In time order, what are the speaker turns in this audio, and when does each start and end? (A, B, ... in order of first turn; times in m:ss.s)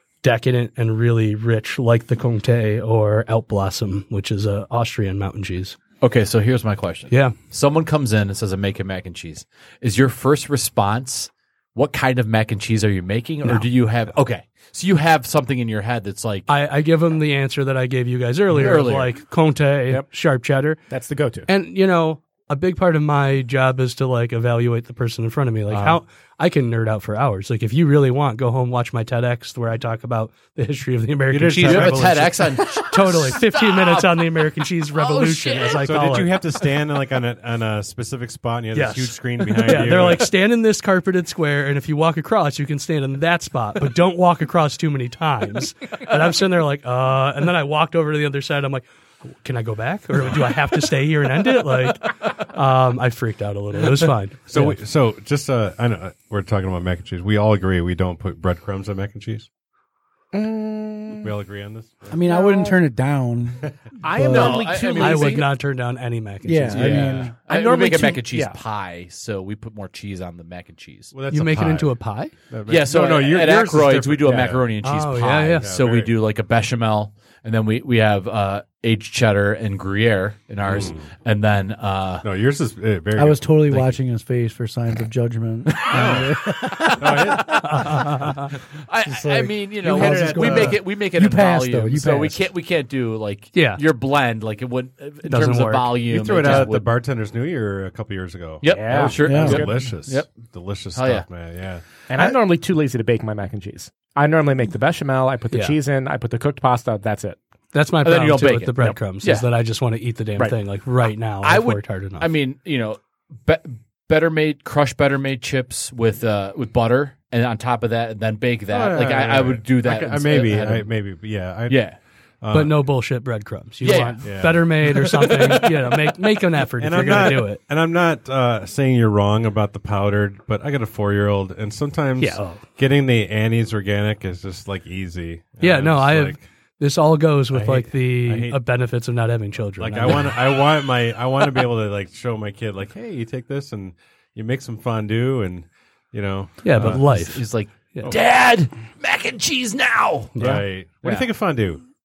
0:00.2-0:05.8 A
0:06.0-0:16.5 B
0:07.1-0:07.4 A
0:16.5-0:20.8 A
0:18.5-0:19.1 B
0:20.9-0:21.5 C
0:21.5-0:36.3 A
0:25.7-0:26.0 B
0:31.3-0:32.5 D
0:31.6-0:34.4 B
0:35.0-0:35.9 B
0:35.8-0:40.3 D
0:38.7-0:54.8 A
0:54.5-0:59.5 D
1:00.3-1:01.3 C
1:01.2-1:02.1 D
1:02.1-1:04.8 E
1:02.3-1:02.8 C
1:04.0-1:05.5 C
1:04.3-1:05.5 B
1:04.9-1:07.3 A
1:06.4-1:07.4 E
1:06.7-1:11.2 B
1:07.4-1:08.6 C
1:11.1-1:12.0 D
1:11.3-1:12.3 A
1:12.5-1:14.6 D
1:12.7-1:22.3 B
1:14.8-1:15.7 A
1:15.6-1:16.1 D
1:20.6-1:21.1 D
1:22.2-1:23.9 D
1:23.2-1:28.3 E
1:25.7-1:28.2 B
1:25.9-1:26.3 D
1:27.0-1:28.0 D
1:27.6-1:28.5 A
1:28.8-1:36.9 B
1:29.0-1:32.4 E
1:29.9-1:30.8 D
1:33.5-1:33.8 A
1:35.2-1:36.6 A
1:36.1-1:41.8 D
1:38.6-1:40.4 B
1:38.7-1:39.7 C
1:39.2-1:39.7 E
1:40.9-1:41.3 B
1:42.1-1:47.4 C
1:45.5-1:45.8 A
1:47.7-1:52.3 A
1:48.0-1:49.5 B
1:51.4-2:00.9 B
1:58.7-2:01.9 D
2:01.7-2:02.0 B
2:02.4-2:02.8 D
2:02.5-2:07.6 A
2:03.8-2:04.3 B
2:04.2-2:05.7 D
2:06.8-2:16.4 D
2:12.2-2:12.6 A
2:15.6-2:20.4 A
2:17.5-2:18.6 D
2:19.8-2:27.0 D
2:26.6-2:28.1 A
2:26.8-2:30.3 B
2:30.4-2:31.3 A
2:30.4-2:31.8 D